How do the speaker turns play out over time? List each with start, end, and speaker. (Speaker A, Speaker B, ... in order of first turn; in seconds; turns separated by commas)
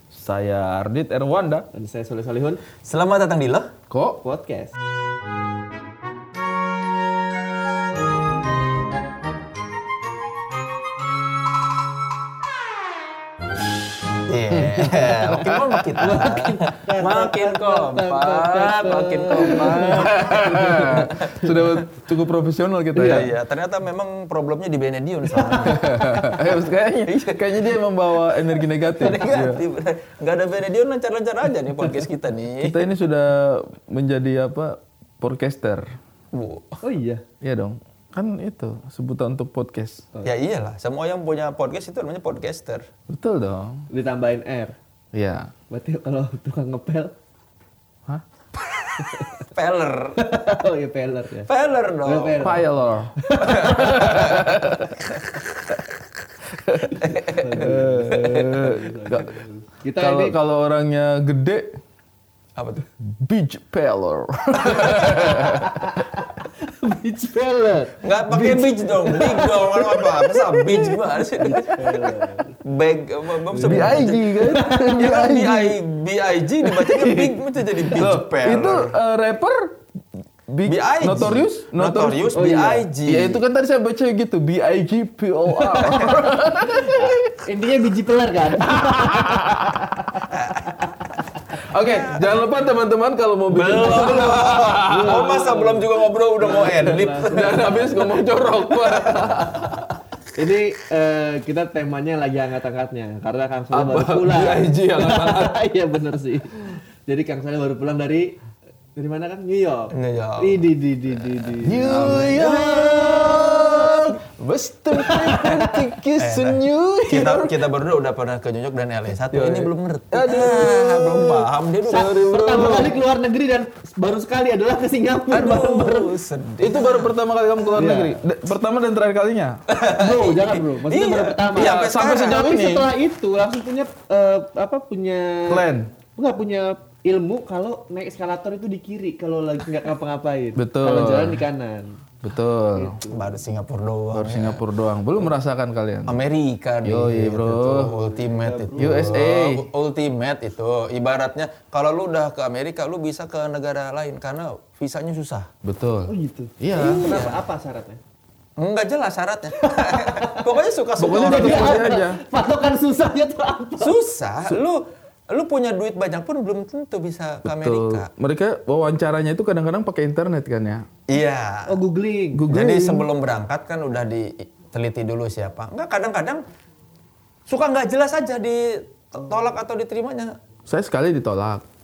Speaker A: 0.1-1.7, Speaker B: 1.7-2.6, Speaker C: 2.8-3.7, Speaker A: 3.9-4.2, Speaker B: 4.2-4.7, Speaker C: 14.2-21.5, Speaker A: 14.6-16.2, Speaker B: 16.0-21.1, Speaker A: 19.3-23.3, Speaker B: 22.9-23.3, Speaker C: 23.0-26.2, Speaker A: 25.6-29.6, Speaker C: 27.1-27.8, Speaker C: 29.0-32.7, Speaker B: 29.0-29.5, Speaker A: 32.6-35.9, Speaker C: 36.3-36.8, Speaker B: 36.8-37.2, Speaker A: 37.4-40.0, Speaker C: 40.2-42.9, Speaker A: 43.1-43.9, Speaker B: 43.9-44.8, Speaker A: 45.1-45.5, Speaker B: 45.7-47.1, Speaker C: 48.8-50.2, Speaker B: 49.0-49.3, Speaker B: 50.2-51.5, Speaker C: 51.5-52.5, Speaker B: 52.0-54.4, Speaker A: 52.4-54.9, Speaker C: 53.4-55.1, Speaker A: 56.6-59.4, Speaker C: 57.0-57.5, Speaker B: 57.1-60.4, Speaker A: 60.0-61.8, Speaker C: 62.5-62.8, Speaker A: 63.0-65.9, Speaker C: 64.7-65.5, Speaker B: 65.5-72.6, Speaker C: 68.0-72.1, Speaker C: 72.6-74.3, Speaker B: 73.5-75.2, Speaker A: 73.6-75.8, Speaker C: 75.0-79.0, Speaker A: 76.8-77.2, Speaker B: 76.9-77.3, Speaker A: 77.9-79.8, Speaker A: 80.5-82.4, Speaker C: 80.7-83.4, Speaker B: 82.3-82.9, Speaker A: 83.0-87.4, Speaker B: 85.5-86.2, Speaker C: 85.8-86.1, Speaker B: 86.7-90.9, Speaker A: 88.6-90.0, Speaker C: 90.3-90.6, Speaker A: 91.7-95.3, Speaker C: 91.7-92.4, Speaker C: 93.5-97.8, Speaker B: 93.7-99.6, Speaker A: 97.2-99.9, Speaker C: 99.3-99.7, Speaker B: 100.3-108.3, Speaker A: 103.7-105.6, Speaker B: 109.0-114.1, Speaker C: 109.9-112.5, Speaker A: 111.6-117.6, Speaker B: 114.9-115.8, Speaker C: 116.2-122.2, Speaker A: 119.3-123.0, Speaker B: 121.9-126.1, Speaker C: 125.3-127.1, Speaker A: 126.6-129.6, Speaker B: 127.8-128.2, Speaker C: 129.7-132.4, Speaker B: 129.9-142.0, Speaker A: 131.5-132.9, Speaker A: 135.4-135.9, Speaker A: 140.6-141.4, Speaker A: 142.2-143.0, Speaker B: 142.7-143.4, Speaker C: 143.1-144.6, Speaker A: 144.1-146.2, Speaker C: 146.1-155.5, Speaker A: 146.8-147.9, Speaker B: 147.9-149.2, Speaker A: 148.8-149.7, Speaker A: 155.6-157.1, Speaker B: 156.1-158.0, Speaker C: 156.7-157.4, Speaker C: 158.6-161.8, Speaker B: 159.6-160.4, Speaker A: 161.0-162.2, Speaker B: 161.1-164.0, Speaker C: 163.8-168.1, Speaker A: 167.4-170.9, Speaker C: 171.1-171.8, Speaker B: 171.7-172.5, Speaker A: 172.3-173.1, Speaker C: 172.5-176.4, Speaker C: 177.5-180.3, Speaker A: 180.7-181.6